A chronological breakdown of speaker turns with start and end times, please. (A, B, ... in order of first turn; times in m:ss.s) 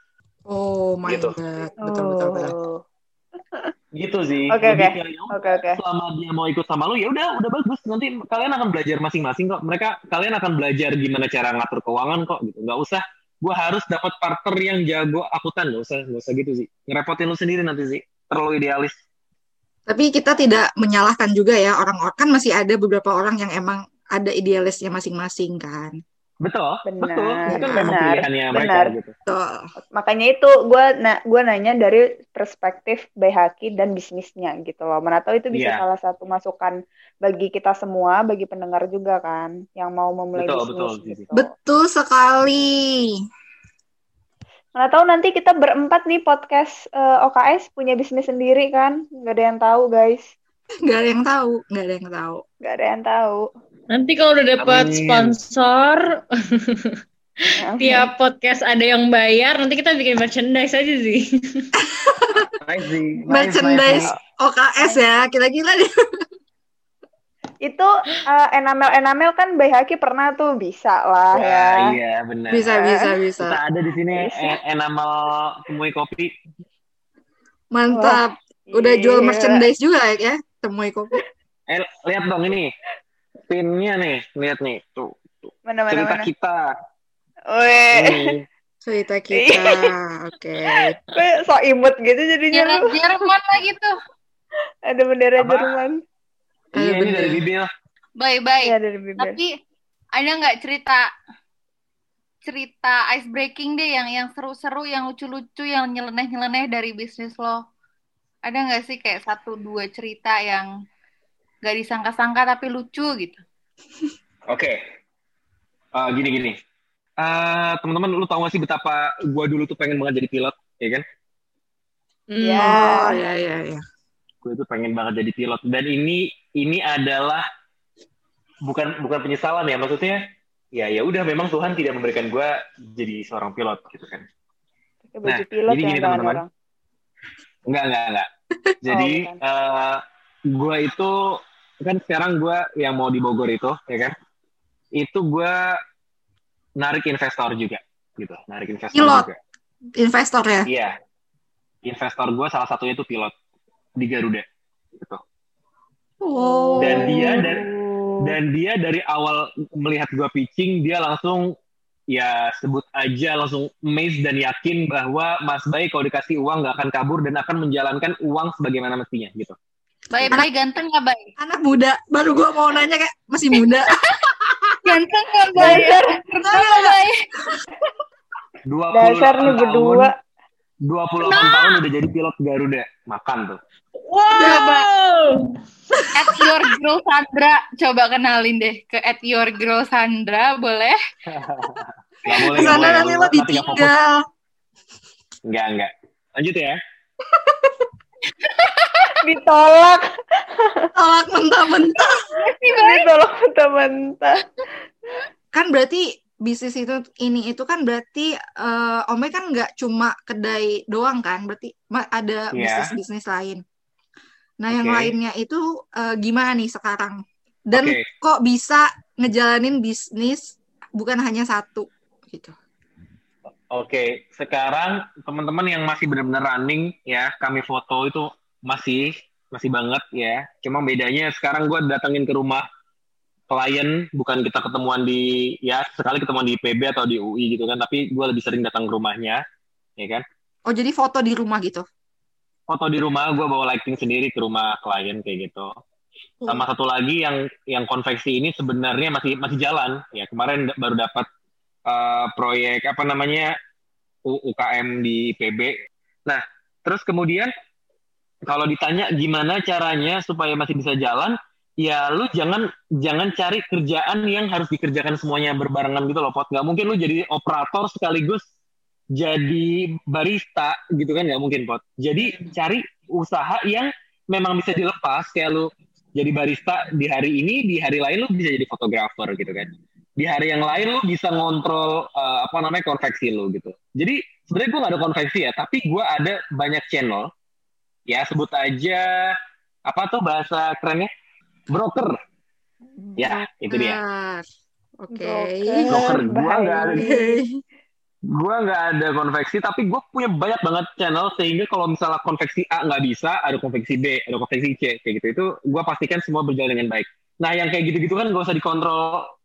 0:00.5-0:02.6 A
0:01.0-0:01.4 B
0:01.8-0:02.8 C
0:03.9-0:18.9 B
0:04.6-0:05.8 C
0:19.9-0:26.0 A
0:26.4-0:29.1 B
0:26.9-0:28.9 C
0:27.5-0:28.0 A
0:29.3-0:29.6 A
0:29.8-0:41.5 C
0:35.5-0:35.8 B
0:40.4-0:41.2 B
0:41.3-0:43.1 A
0:44.8-0:50.2 C
0:50.9-0:52.4 A
0:52.6-0:53.4 C
0:53.9-0:56.0 D
0:54.6-0:55.4 B
0:57.6-0:58.1 C
0:57.8-1:01.6 D
1:01.8-1:02.5 A
1:02.6-1:04.1 B
1:03.3-1:05.9 A
1:07.6-1:11.9 C
1:11.3-1:12.8 B
1:12.5-1:13.6 A
1:12.7-1:13.1 C
1:13.4-1:16.3 B
1:14.2-1:14.6 C
1:17.7-1:21.2 A
1:17.9-1:18.2 C
1:18.7-1:19.7 C
1:21.7-1:22.7 B
1:23.5-1:26.6 B
1:25.7-1:26.3 C
1:27.5-1:28.2 C
1:27.9-1:28.5 B
1:28.8-1:31.0 A
1:29.3-1:29.9 C
1:30.7-1:32.8 C
1:32.5-1:33.9 E
1:34.9-1:36.0 C
1:35.4-1:35.8 B
1:36.7-1:37.7 B
1:36.8-1:37.5 A
1:38.2-1:39.5 E
1:38.6-1:39.4 C
1:40.2-1:41.0 E
1:42.4-1:47.6 E
1:48.5-1:50.6 E
1:51.7-1:53.4 E
1:54.5-1:54.8 B
1:55.9-1:56.6 B
1:57.2-2:01.0 B
2:02.3-2:02.9 D
2:02.4-2:03.2 C
2:02.6-2:03.8 A
2:04.4-2:07.4 B
2:08.6-2:10.2 B
2:10.7-2:14.2 B
2:15.1-2:16.5 C
2:15.2-2:16.4 B
2:17.7-2:18.3 B
2:18.8-2:21.1 B
2:18.9-2:19.4 C
2:21.8-2:24.1 B
2:25.0-2:25.6 B
2:26.8-2:29.4 B
2:28.9-2:29.3 A
2:30.0-2:30.7 A
2:30.7-2:30.9 B
2:31.8-2:33.3 B
2:34.0-2:34.4 B
2:36.2-2:37.5 A
2:36.4-2:38.4 C
2:36.8-2:37.6 B
2:38.2-2:41.5 B
2:42.1-2:49.6 B
2:50.1-2:51.2 E
2:51.4-2:54.9 A
2:54.9-2:57.1 E
2:55.6-2:56.0 A
2:55.6-2:56.1 C
2:56.5-2:57.0 A
2:58.7-3:00.1 B
2:58.9-3:00.1 C
3:00.9-3:03.6 B
3:04.1-3:05.4 D
3:04.5-3:04.9 E
3:06.0-3:06.3 A
3:06.2-3:10.9 E
3:11.3-3:13.9 B
3:12.5-3:14.2 A
3:15.5-3:16.8 B
3:19.2-3:20.0 C
3:20.6-3:20.9 C
3:21.0-3:22.2 A
3:22.4-3:24.4 C
3:22.6-3:23.1 E
3:25.5-3:33.6 A
3:32.5-3:32.9 B
3:34.6-3:42.5 A
3:34.7-3:35.1 B
3:37.7-3:38.0 B
3:43.7-3:52.6 B
3:53.5-3:59.4 B
4:00.0-4:00.2 B
4:00.7-4:01.8 A
4:02.7-4:05.7 B
4:06.4-4:06.7 A
4:06.5-4:11.3 B
4:11.9-4:13.5 B
4:14.3-4:15.7 B
4:16.3-4:17.5 B
4:18.5-4:28.4 B
4:29.2-4:47.3 B
4:48.1-4:49.3 B
4:49.9-4:51.1 B
4:51.7-4:52.2 B
4:53.2-4:54.0 B
4:53.2-4:54.4 A
4:55.0-4:56.2 A
4:55.1-4:57.4 C
4:55.9-4:57.1 B
4:56.8-4:57.6 A
4:58.3-5:09.2 B